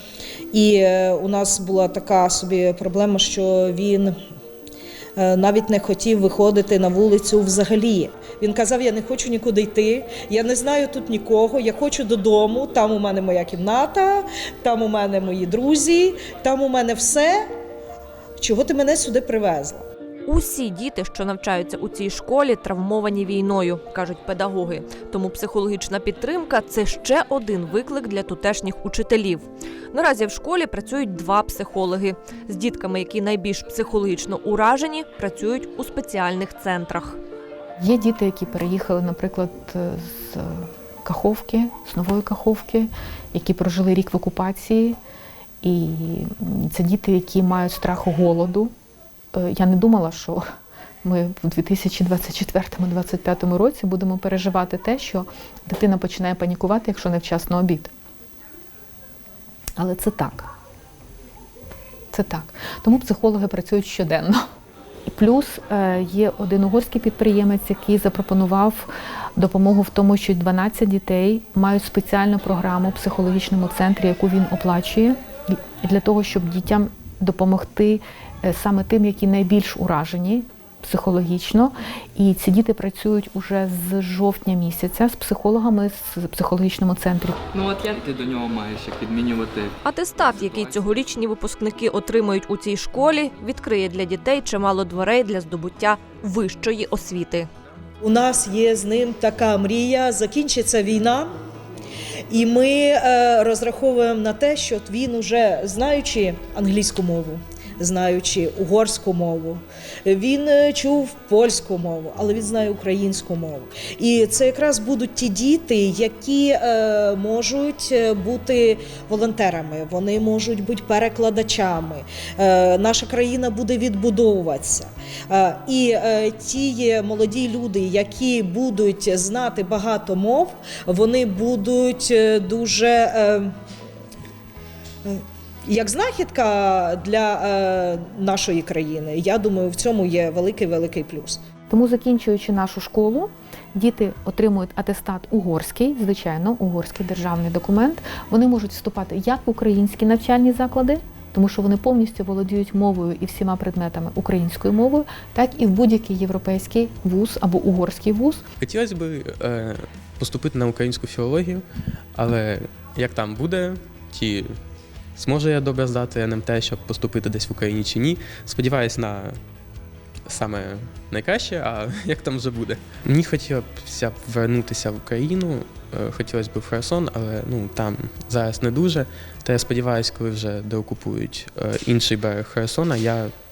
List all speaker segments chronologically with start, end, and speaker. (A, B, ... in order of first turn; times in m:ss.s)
0:00.5-0:04.1 A
0:05.2-0:17.4 A
0:18.4-0:19.8 A
0:20.2-0:37.2 B
0:37.8-0:45.0 C
0:45.6-0:48.7 C
0:49.3-0:50.4 C
0:51.0-0:57.9 C
0:59.8-1:00.5 C
1:02.1-1:04.4 C
1:05.1-1:27.4 C
1:27.5-1:29.7 D
1:29.8-1:37.5 B
1:30.4-1:30.8 D
1:38.0-1:41.3 A
1:42.3-2:13.5 A
2:15.0-2:21.4 A
2:21.7-2:38.4 C
2:38.6-2:41.6 E
2:42.2-2:44.5 E
2:45.2-2:49.3 E
2:50.3-3:03.3 E